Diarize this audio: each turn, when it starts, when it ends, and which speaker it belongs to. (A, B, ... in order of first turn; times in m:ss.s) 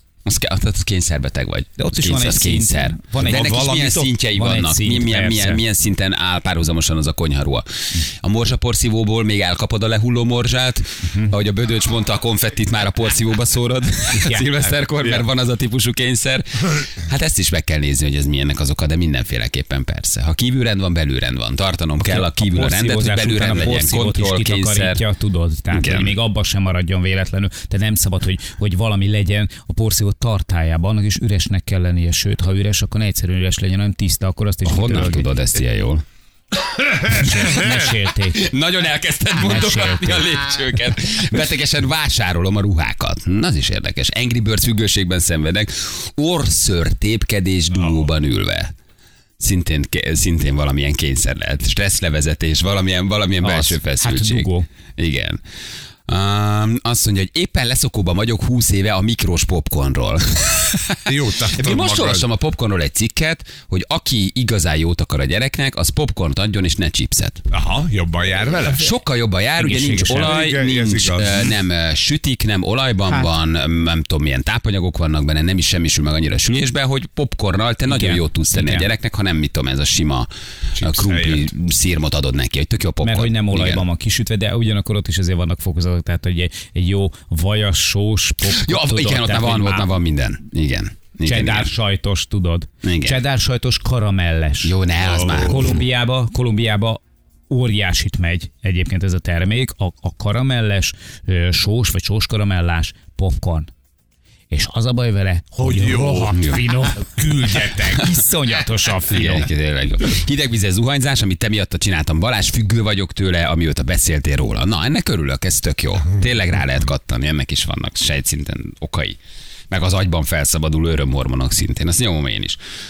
0:00.2-0:25.0 A
0:01.8-0:05.6 B
0:03.2-0:04.1 C
0:14.1-0:14.4 B
0:22.0-0:35.3 B
0:25.7-0:26.2 A
0:34.6-0:36.0 A
0:36.9-0:48.7 A
0:37.1-0:38.4 B
0:39.4-0:40.3 B
0:47.8-0:48.1 C
0:49.4-0:55.4 A
0:53.4-0:54.7 B
0:56.1-1:07.4 A
1:01.1-1:02.3 C
1:07.5-1:08.9 C
1:08.5-1:23.8 A
1:09.6-1:10.4 B
1:10.0-1:11.6 C
1:13.1-1:13.3 B
1:17.9-1:18.9 B
1:20.8-1:21.4 C
1:23.0-1:29.9 B
1:28.5-1:31.7 A
1:31.2-1:34.7 B
1:32.8-1:33.2 A
1:34.6-1:35.8 A
1:35.0-1:35.8 C
1:35.4-1:43.7 B
1:44.5-1:49.5 B
1:45.6-1:48.1 C
1:46.4-1:46.6 A
1:48.0-1:48.2 A
1:49.1-1:59.2 A
1:59.7-2:02.6 A